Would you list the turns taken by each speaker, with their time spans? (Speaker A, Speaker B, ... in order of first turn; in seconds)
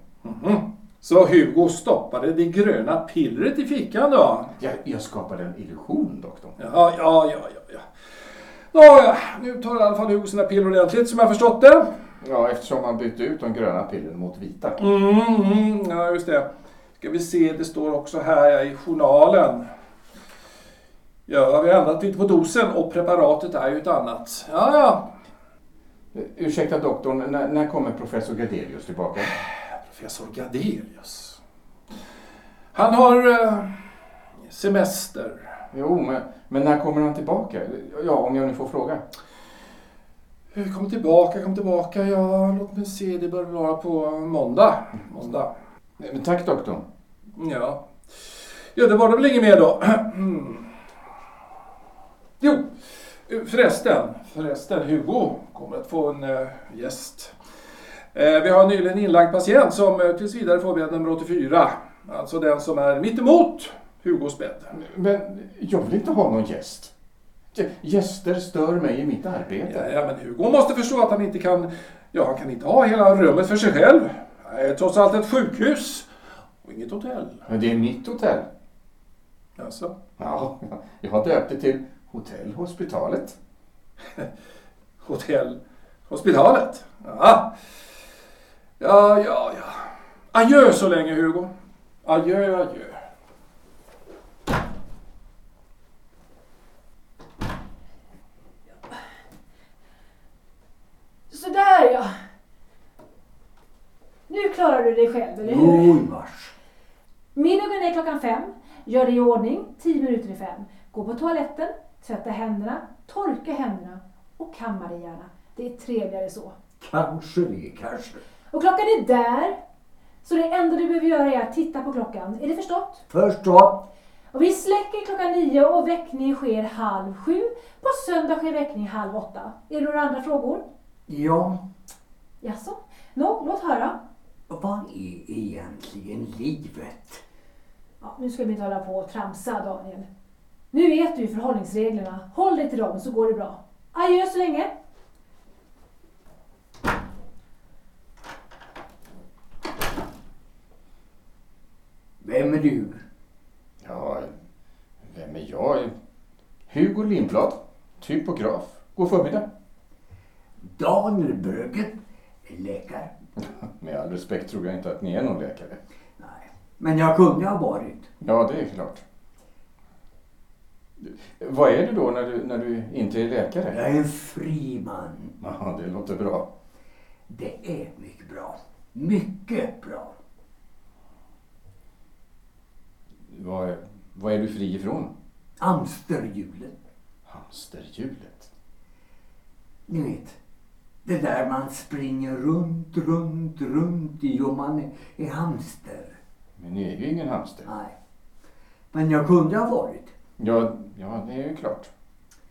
Speaker A: 0.2-4.5, 6.6-11.9, 14.8-16.5, 17.0-19.7, 21.3-25.1, 29.3-31.4, 32.7-35.6, 40.5-45.5, 47.4-50.7, 52.4-57.3, 58.1-64.7, 69.7-76.1, 76.6-77.4, 79.6-79.9, 85.0-87.6, 88.8-91.5, 92.0-93.0
Speaker B: 4.6-6.5, 12.2-14.8, 26.1-29.3, 35.7-39.0, 46.0-46.8, 64.7-66.9, 67.5-69.9, 77.5-78.5, 80.2-83.4, 153.8-154.3, 155.0-155.9, 156.7-159.4, 163.4-165.8, 168.2-169.0, 171.0-173.8, 175.4-176.5, 183.3-185.1, 187.3-188.5, 196.6-197.7, 200.4-201.9
Speaker C: 101.3-102.1, 104.3-106.0, 107.3-116.5, 118.5-119.6, 120.2-123.0, 124.3-130.6, 132.4-134.0, 138.0-140.1, 140.7-144.7
Speaker D: 105.4-106.5, 116.8-118.2, 123.1-123.8, 131.1-131.6, 134.5-137.2, 152.2-153.0, 160.6-163.1, 166.2-168.1, 173.7-175.3, 177.3-180.1, 185.6-186.7, 189.9-190.4, 191.0-196.2, 197.6-197.9, 198.9-200.1